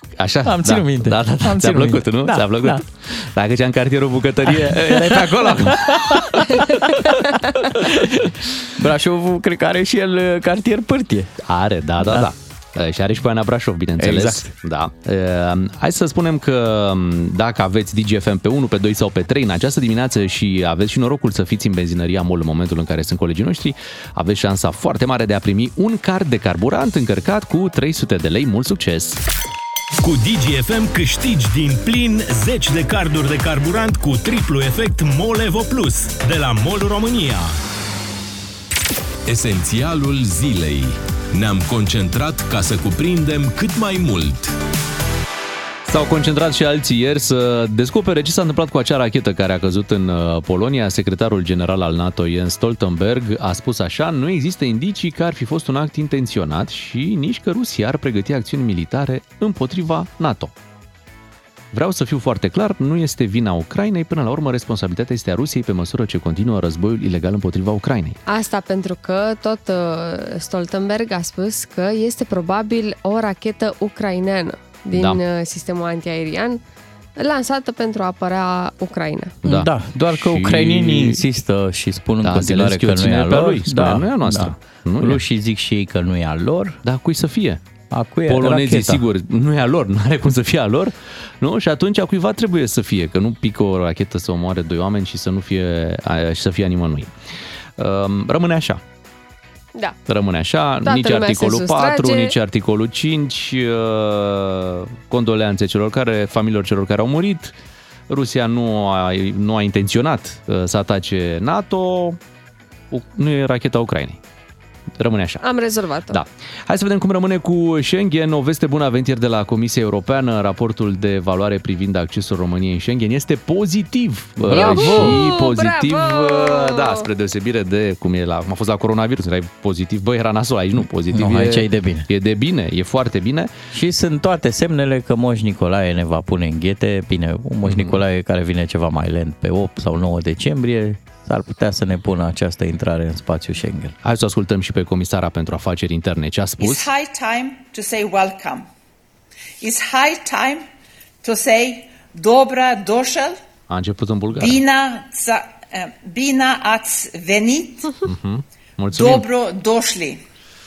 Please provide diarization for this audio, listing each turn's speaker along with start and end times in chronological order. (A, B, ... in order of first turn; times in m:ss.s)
0:00.2-0:06.4 A
0:00.4-0:02.8 B
0:04.5-0:11.3 B
0:11.4-0:29.2 A
0:12.0-0:12.3 B
0:14.0-0:14.5 B
0:30.0-0:37.6 C
0:39.3-0:44.6 C
0:45.8-1:00.5 A
1:01.7-1:08.2 A
1:08.3-1:16.6 D
1:14.9-1:15.2 A
1:17.2-1:19.4 D
1:19.4-1:21.2 A
1:19.5-1:26.8 B
1:22.2-1:25.2 A
1:26.8-1:27.6 A
1:27.9-1:29.0 B
1:28.3-1:37.1 A
1:37.8-1:38.8 A
1:40.1-1:47.6 A
1:40.8-1:42.4 D
1:48.1-1:52.2 A
1:52.9-1:54.2 A
1:55.0-1:55.4 A
1:55.4-1:56.2 D
1:56.1-2:13.5 A
2:04.4-2:05.2 B
2:04.5-2:07.1 D
2:11.1-2:12.1 B
2:13.7-2:24.0 B
2:17.6-2:18.0 A
2:24.0-2:26.9 A
2:26.6-2:28.7 E
2:29.6-2:30.7 E
2:31.2-2:33.4 E
2:33.7-2:34.6 A
2:34.4-2:38.0 E
2:38.0-2:39.3 A
2:38.9-2:40.2 E